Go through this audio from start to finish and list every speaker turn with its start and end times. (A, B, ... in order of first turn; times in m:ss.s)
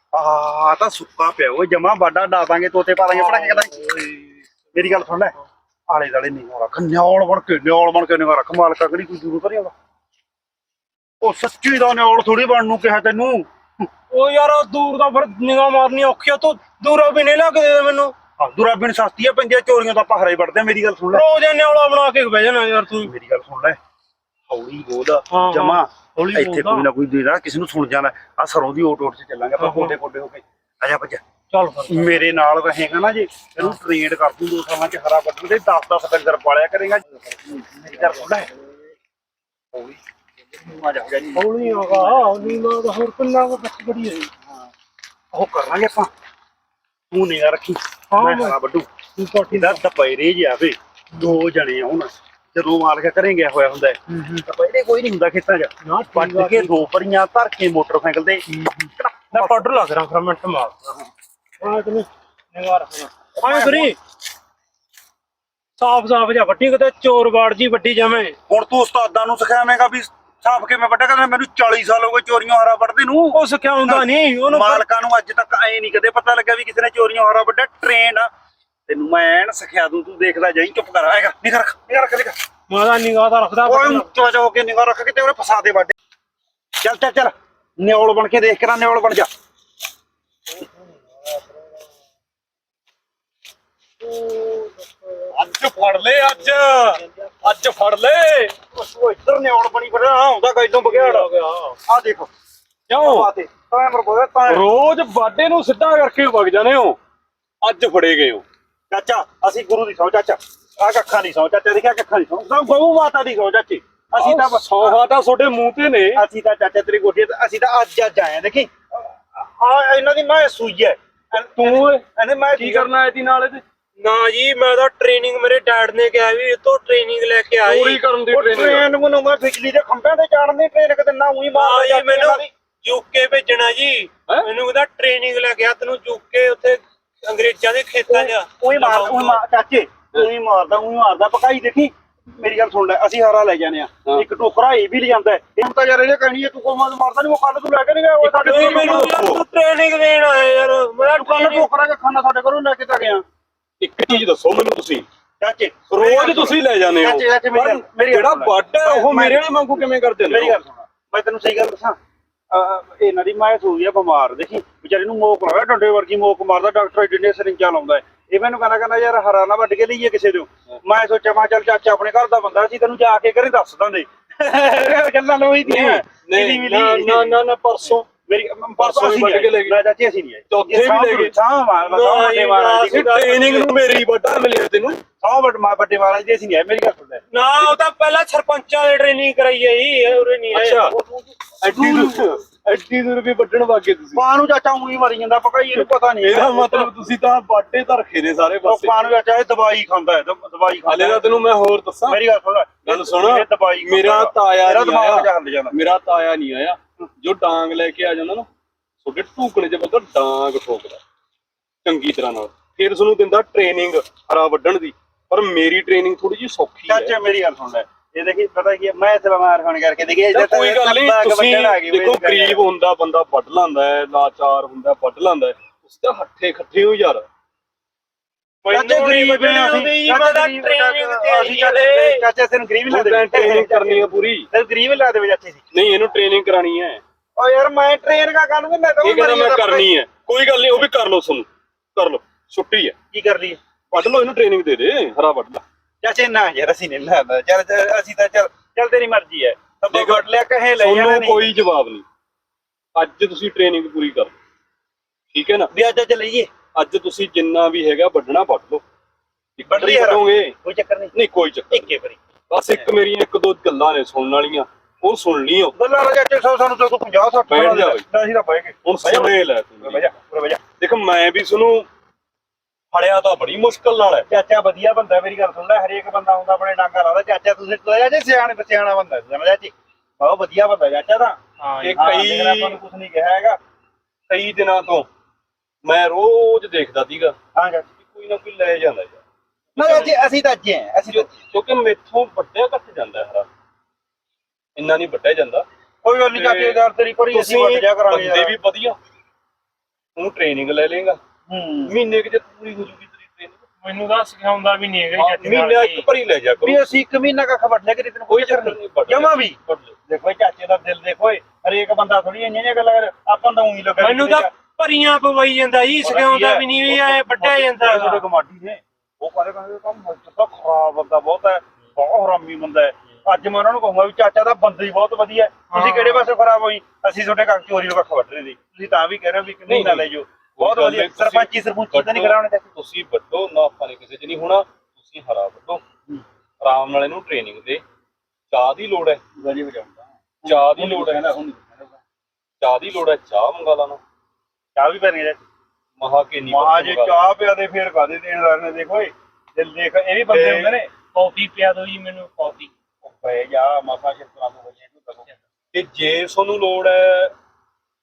0:00.1-0:04.0 A
0:03.1-0:04.3 B
0:04.7-0:05.4 A
0:05.9-0:09.7 A
0:11.2-0:13.5 A
0:14.1-0:18.1 B
0:18.4-0:21.2 A
0:21.1-0:23.1 B
0:23.0-0:23.8 A
0:24.5-0:31.2 A
0:25.3-0:26.9 B
0:29.6-0:30.0 B
0:31.5-0:32.2 B
0:31.9-0:38.5 A
0:40.6-0:42.3 A
0:41.3-0:44.3 B
0:45.3-0:46.1 A
0:47.1-0:48.9 A
0:48.1-0:48.6 B
0:49.2-0:49.8 B
0:49.5-0:58.4 A
0:54.1-0:54.4 B
0:55.8-0:56.8 B
0:58.5-1:01.0 B
0:59.0-0:59.6 A
1:01.6-1:04.0 B
1:03.4-1:03.9 A
1:05.8-1:08.4 B
1:08.5-1:18.3 A
1:13.3-1:14.8 B
1:18.9-1:22.4 A
1:22.7-1:24.1 B
1:23.6-1:25.9 A
1:26.8-1:29.3 A
1:31.2-1:31.6 B
1:34.0-1:35.5 B
1:35.3-1:38.5 C
1:36.1-1:37.3 B
1:38.7-1:41.3 A
1:40.8-1:41.8 B
1:41.9-1:42.3 A
1:42.9-1:43.3 C
1:43.0-1:44.7 A
1:44.5-1:47.0 C
1:47.6-1:48.4 C
1:48.9-1:55.0 A
1:54.2-1:56.2 C
1:56.1-2:02.9 A
2:01.6-2:03.6 C
2:04.0-2:08.0 B
2:07.6-2:08.9 C
2:08.3-2:12.5 A
2:11.5-2:19.4 B
2:18.1-2:29.2 A
2:28.2-2:31.7 B
2:28.4-2:29.4 C
2:31.0-2:33.2 A
2:33.8-2:35.0 C
2:35.4-2:39.4 A
2:35.9-2:40.6 C
2:40.2-2:42.0 A
2:42.5-2:57.4 A
2:55.6-2:58.1 C
2:58.3-3:03.1 A
2:58.8-2:59.8 C
3:00.5-3:01.4 C
3:01.8-3:03.7 B
3:02.8-3:05.0 C
3:05.2-3:07.2 A
3:07.3-3:10.9 B
3:10.5-3:10.9 C
3:10.9-3:12.2 A
3:11.6-3:14.2 C
3:14.2-3:16.8 A
3:15.7-3:19.1 C
3:18.6-3:21.3 A
3:20.8-3:22.2 C
3:22.1-3:25.8 A
3:22.8-3:28.5 C
3:29.0-3:31.0 C
3:31.8-3:37.2 C
3:36.9-3:42.6 A
3:40.3-3:47.2 C
3:48.6-3:52.2 B
3:48.7-3:55.7 A
3:52.9-3:54.5 C
3:55.7-3:57.0 C
3:57.4-3:59.9 A
3:59.0-4:02.9 C
4:03.1-4:03.6 A
4:03.9-4:05.6 C
4:06.0-4:11.5 A
4:09.9-4:12.0 C
4:12.9-4:14.4 C
4:15.3-4:15.7 C
4:15.7-4:16.5 A
4:16.7-4:18.8 C
4:19.6-4:20.6 C
4:19.6-4:21.1 A
4:21.1-4:21.9 C
4:21.7-4:22.2 A
4:22.5-4:25.8 C
4:25.8-4:30.6 A
4:27.5-4:28.0 C
4:28.8-4:30.1 C
4:30.8-4:31.9 C
4:32.9-4:34.3 C
4:34.3-4:41.4 A
4:41.6-4:42.8 B
4:41.8-4:42.8 C
4:41.9-4:43.6 A
4:44.3-4:45.1 C
4:45.8-4:47.4 C
4:47.6-4:47.9 A
4:48.0-4:49.2 C
4:49.8-4:51.4 A
4:49.8-4:50.1 B
4:51.1-4:53.5 C
4:54.8-4:55.7 C
4:56.0-4:58.5 A
4:56.3-4:59.0 C
5:00.2-5:01.2 C
5:01.5-5:02.0 A
5:01.9-5:03.6 C
5:03.8-5:06.1 B
5:05.1-5:06.9 C
5:06.6-5:14.5 A
5:08.3-5:09.9 C
5:14.0-5:18.2 B
5:16.0-5:32.6 A
5:25.7-5:26.3 B
5:29.7-5:35.8 C
5:36.6-5:37.8 C
5:38.5-5:39.2 C
5:39.4-5:42.0 A
5:40.4-5:41.4 C
5:42.6-5:44.0 C
5:44.8-5:45.4 A
5:46.0-5:47.3 C
5:46.5-5:50.9 A
5:50.3-5:50.7 C
5:51.0-5:52.7 B
5:53.0-5:55.2 A
5:55.7-5:57.3 C